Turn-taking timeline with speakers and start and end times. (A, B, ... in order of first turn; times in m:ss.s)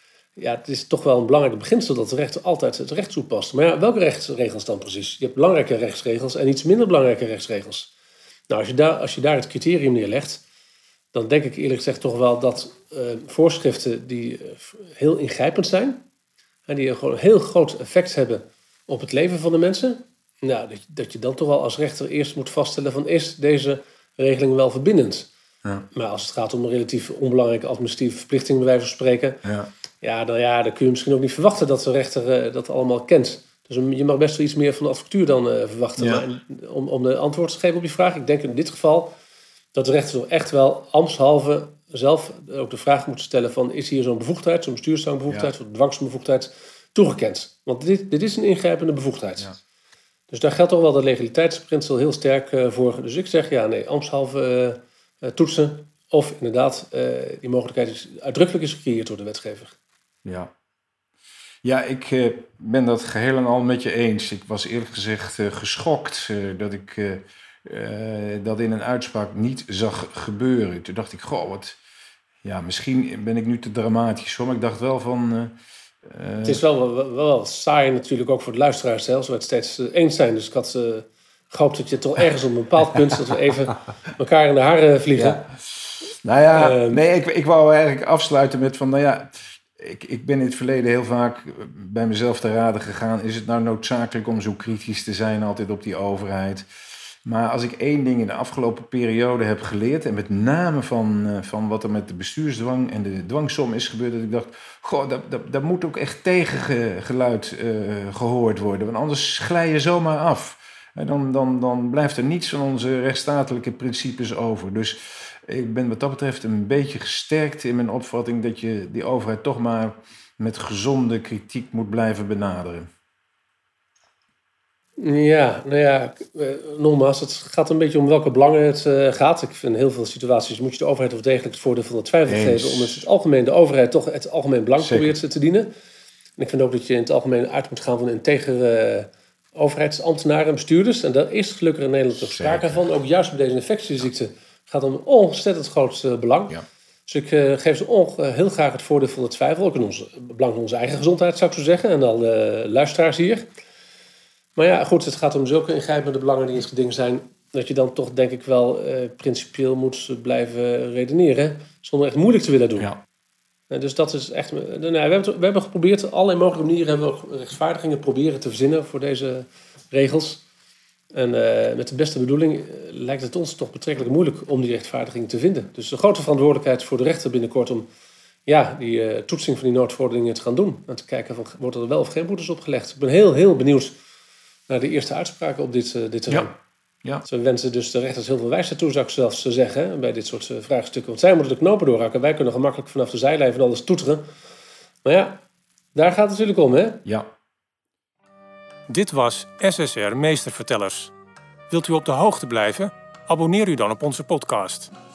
0:00.4-0:07.9 A
0:08.5-0:10.4 A
0:11.1-0:16.0 A
0:16.7-0:25.3 A
0:25.9-0:29.4 A
0:29.4-0:29.7 B
0:30.0-0:39.2 A
0:36.0-0:36.2 B
0:39.7-0:49.5 A
0:50.3-0:59.8 A
1:00.2-1:00.5 B
1:01.6-1:11.8 B
1:12.4-1:16.6 B
1:16.4-1:25.4 A
1:25.2-1:36.7 B
1:26.5-1:27.0 A
1:37.2-2:02.9 B
2:05.0-2:15.7 A
2:12.3-2:13.0 B
2:14.8-2:15.2 B
2:16.4-2:33.5 A
2:22.3-2:22.8 B
2:34.6-2:42.9 A
2:43.7-2:50.4 A
2:51.1-2:57.9 A
2:58.5-3:04.0 A
3:04.7-3:06.6 A
3:07.2-3:14.3 A
3:15.0-3:15.4 A
3:16.0-3:17.0 A
3:18.9-3:21.1 C
3:21.7-3:24.9 C